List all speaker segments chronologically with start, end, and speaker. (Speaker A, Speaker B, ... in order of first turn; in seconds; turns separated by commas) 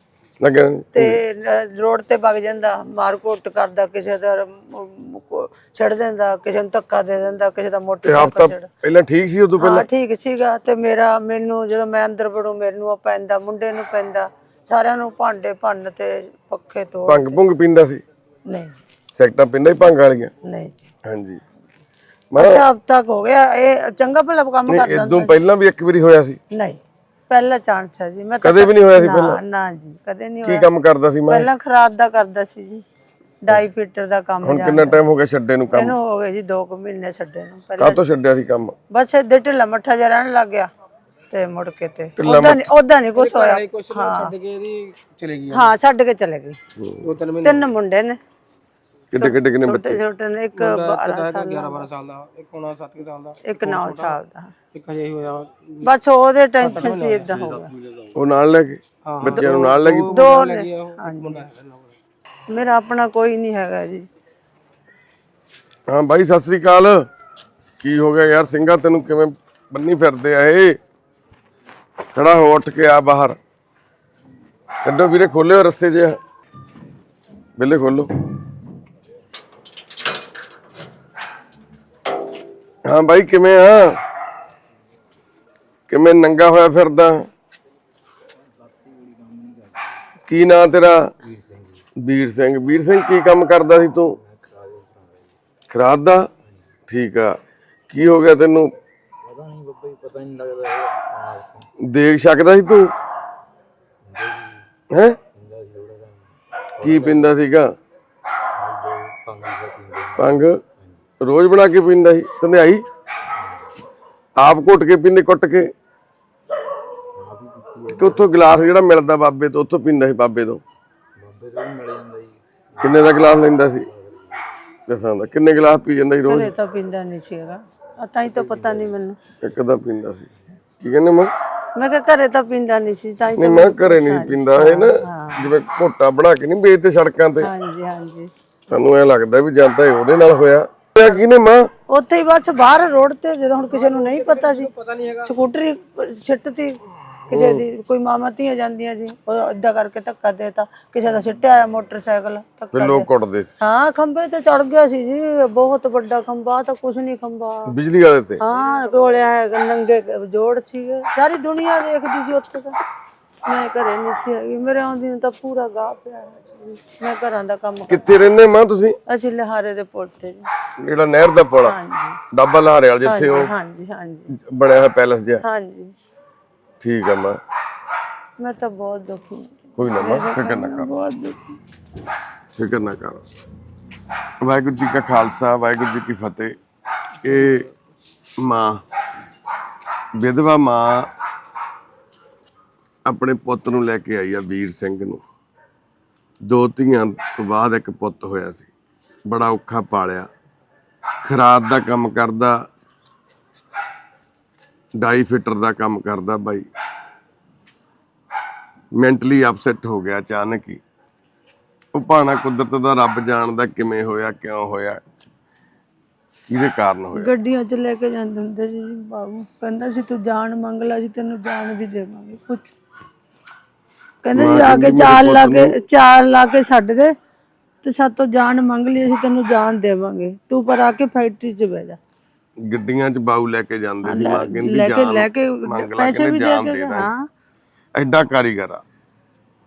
Speaker A: 0.4-1.2, Speaker B: 0.9-8.7, Speaker A: 8.1-9.9, Speaker B: 9.6-17.4, Speaker A: 17.1-18.0, Speaker B: 18.5-18.8, Speaker A: 19.1-20.3, Speaker B: 20.4-20.8, Speaker A: 21.1-21.4, Speaker A: 22.3-22.6, Speaker B: 22.4-25.4, Speaker A: 24.7-26.4, Speaker B: 26.5-30.7, Speaker A: 28.4-29.4, Speaker A: 30.4-31.5, Speaker B: 31.3-32.9, Speaker B: 33.5-35.0, Speaker A: 34.4-36.0, Speaker B: 35.7-38.0, Speaker A: 37.8-38.8, Speaker B: 38.9-40.7, Speaker B: 41.3-44.3, Speaker A: 42.2-42.6, Speaker C: 43.2-45.7, Speaker B: 45.5-46.6, Speaker A: 46.8-47.1, Speaker C: 47.0-47.7, Speaker B: 47.4-48.2, Speaker A: 49.1-50.0, Speaker B: 49.2-51.9, Speaker C: 50.5-54.2, Speaker B: 53.4-54.5, Speaker C: 54.7-55.9, Speaker B: 55.8-57.7, Speaker C: 56.6-57.8, Speaker A: 58.1-60.2, Speaker C: 59.1-62.0, Speaker B: 60.1-61.5, Speaker B: 62.5-64.1, Speaker A: 65.9-67.1, Speaker A: 67.8-70.8, Speaker A: 72.1-73.4, Speaker A: 74.8-76.2, Speaker A: 77.6-78.1, Speaker A: 82.9-84.0, Speaker A: 85.9-87.3, Speaker D: 88.6-89.9, Speaker A: 90.3-91.1, Speaker D: 91.2-91.8, Speaker A: 92.0-94.2, Speaker D: 94.2-95.4, Speaker A: 95.7-96.3, Speaker A: 96.9-97.4, Speaker A: 97.9-98.7, Speaker D: 99.2-101.7, Speaker A: 101.8-102.9, Speaker D: 104.0-104.7, Speaker A: 104.9-105.2, Speaker D: 105.3-107.4, Speaker A: 106.8-107.7, Speaker D: 108.5-111.0, Speaker A: 110.2-110.6, Speaker A: 111.2-112.8, Speaker D: 113.4-113.7, Speaker A: 114.4-115.7, Speaker D: 117.2-118.4, Speaker A: 117.9-120.6, Speaker D: 121.2-124.5, Speaker A: 122.8-123.9, Speaker A: 124.9-126.5, Speaker B: 126.3-129.2, Speaker D: 128.4-128.9, Speaker A: 129.4-131.3, Speaker B: 131.8-135.5, Speaker A: 133.4-137.5, Speaker B: 137.4-138.3, Speaker A: 138.7-141.7, Speaker B: 141.9-144.7, Speaker C: 143.7-145.3, Speaker B: 145.2-153.1, Speaker A: 147.3-147.6, Speaker A: 152.7-153.5, Speaker B: 153.6-157.7, Speaker A: 157.7-158.4, Speaker B: 158.4-162.8, Speaker B: 163.5-168.2, Speaker A: 167.9-169.0, Speaker B: 169.1-170.5, Speaker A: 170.8-171.8, Speaker B: 171.6-172.2, Speaker A: 172.3-173.5, Speaker B: 173.0-174.3, Speaker A: 174.3-175.4, Speaker B: 175.4-175.9, Speaker A: 176.8-177.4, Speaker B: 178.4-181.4, Speaker A: 179.8-180.9, Speaker A: 182.6-183.2, Speaker A: 184.4-186.6, Speaker A: 187.2-187.7, Speaker A: 188.4-188.8, Speaker A: 190.2-191.1, Speaker A: 193.1-195.2, Speaker A: 196.4-198.7, Speaker A: 199.3-200.3, Speaker A: 201.2-202.6, Speaker A: 205.0-206.7, Speaker A: 209.0-210.8, Speaker A: 211.9-215.0, Speaker A: 216.5-217.3, Speaker B: 217.1-222.7, Speaker B: 224.2-227.2, Speaker A: 224.3-225.7, Speaker B: 227.8-232.0, Speaker A: 232.7-237.1, Speaker B: 234.0-237.3, Speaker A: 238.0-238.8